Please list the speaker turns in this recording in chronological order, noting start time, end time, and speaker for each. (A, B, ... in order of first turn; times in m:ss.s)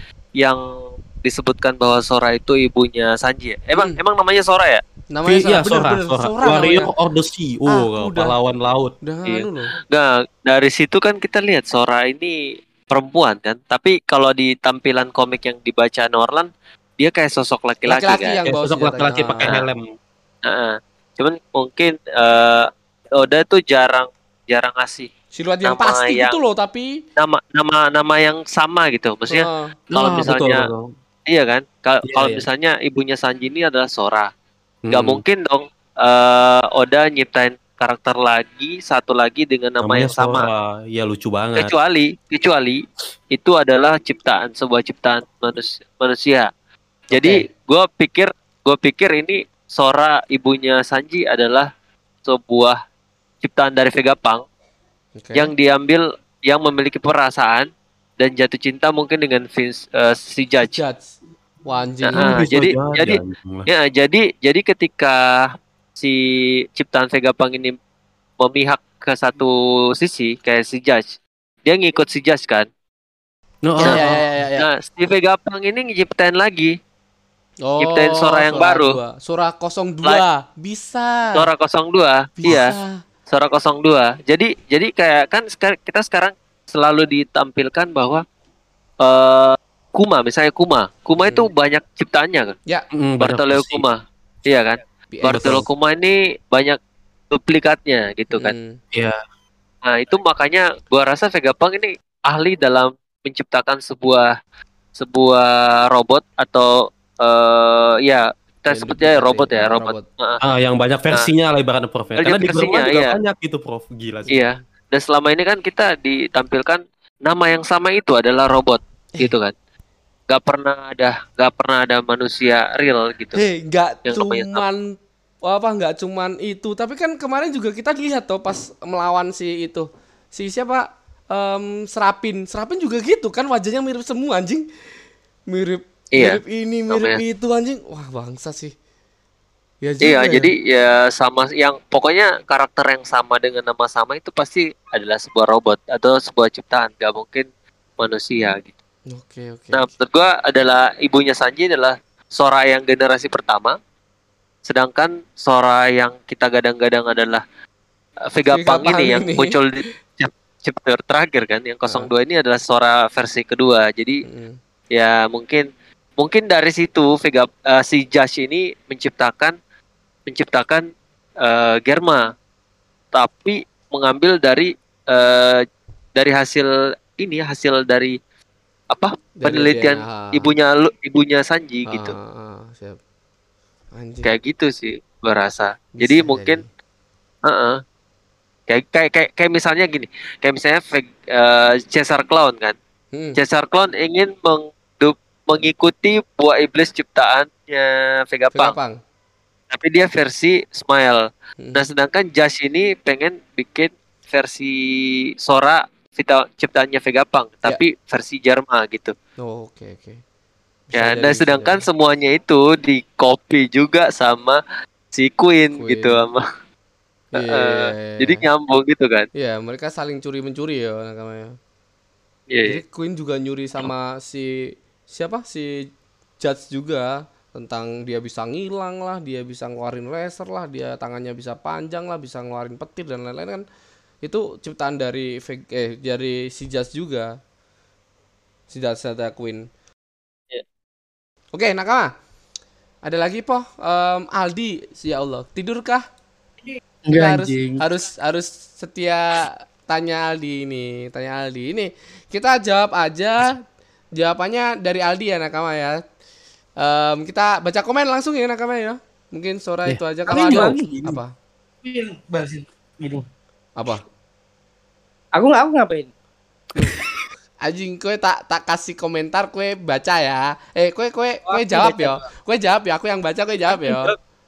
0:01.2-0:04.8 A
0:05.1-0:06.9 B
0:05.3-0:09.0 C
0:07.7-0:08.4 B
0:09.0-0:09.7 B
0:09.3-0:12.4 A
0:12.9-0:18.4 A
0:17.9-0:19.6 B
0:18.5-0:19.9 C
0:20.5-0:25.1 A
0:25.4-0:26.9 B
0:25.6-0:26.4 A
0:27.2-0:30.6 A
0:29.3-0:29.7 B
0:29.9-0:30.9 C
0:31.3-0:34.3 A
0:32.1-0:32.4 C
0:34.8-0:35.2 C
0:34.9-0:40.5 A
0:39.8-0:41.8 C
0:41.6-0:46.5 A
0:47.1-0:47.5 B
0:47.1-0:51.7 A
0:52.2-0:52.8 A
0:53.4-0:54.4 A
0:55.2-0:55.5 B
0:55.4-0:57.7 A
0:58.2-1:00.8 A
1:00.6-1:02.4 B
1:02.0-1:05.2 A
1:02.2-1:03.7 C
1:06.8-1:07.8 A
1:08.4-1:12.7 A
1:13.6-1:14.3 C
1:13.8-1:14.7 B
1:14.6-1:16.8 A
1:17.7-1:21.5 B
1:17.8-1:19.0 A
1:21.4-1:22.7 A
1:22.4-1:23.0 B
1:23.3-1:28.2 A
1:29.0-1:32.6 A
1:31.2-1:31.5 B
1:33.0-1:33.8 C
1:33.2-1:36.8 A
1:35.1-1:35.6 B
1:35.3-1:35.6 C
1:37.3-1:38.6 A
1:38.3-1:38.8 B
1:39.8-1:44.3 A
1:45.0-1:50.4 A
1:48.7-1:50.0 B
1:50.4-1:54.4 C
1:52.2-1:53.2 A
1:54.3-1:54.6 B
1:54.3-1:59.5 A
2:00.3-2:03.4 A
2:03.4-2:14.7 B
2:04.1-2:04.6 A
2:15.5-2:18.7 B
2:16.2-2:17.2 A
2:19.8-2:20.5 B
2:20.0-2:27.5 A
2:28.0-2:28.7 A
2:29.1-2:29.9 B
2:29.7-2:33.8 A
2:34.7-2:37.4 A
2:38.3-2:44.2 A
2:38.5-2:39.6 B
2:44.2-2:44.6 B
2:44.9-2:45.6 A
2:46.2-2:49.6 A
2:50.3-2:50.8 A
2:51.4-2:52.3 A
2:53.1-2:55.6 A
2:56.2-2:58.1 A
2:58.9-3:02.2 A
2:59.4-3:00.5 B
3:01.9-3:03.0 B
3:04.0-3:04.3 B
3:04.2-3:06.6 A
3:06.0-3:06.7 B
3:07.5-3:07.8 A
3:08.7-3:12.8 A
3:13.1-3:13.4 B
3:13.4-3:18.7 A
3:18.5-3:19.0 B
3:19.7-3:21.2 A
3:21.8-3:24.8 A
3:25.4-3:29.1 A
3:29.4-3:30.2 B
3:30.9-3:31.8 B
3:31.0-3:34.6 A
3:35.1-3:36.4 A
3:35.8-3:36.2 B
3:37.3-3:38.4 B
3:37.4-3:39.3 A
3:39.4-3:41.5 B
3:42.5-3:42.8 A
3:42.7-3:44.6 B
3:45.1-3:45.8 B
3:46.4-3:53.6 B
3:54.2-3:57.3 B
3:58.7-3:59.6 B
4:01.5-4:02.1 B
4:03.0-4:06.0 B
4:07.1-4:07.8 D
4:07.1-4:13.6 B
4:14.2-4:16.0 B
4:16.8-4:21.3 B
4:19.9-4:20.8 C
4:20.3-4:21.2 D
4:21.8-4:23.2 D
4:23.8-4:24.0 B
4:25.3-4:26.1 D
4:26.8-4:27.2 D
4:27.6-4:34.1 B
4:31.5-4:32.3 D
4:33.7-4:34.2 D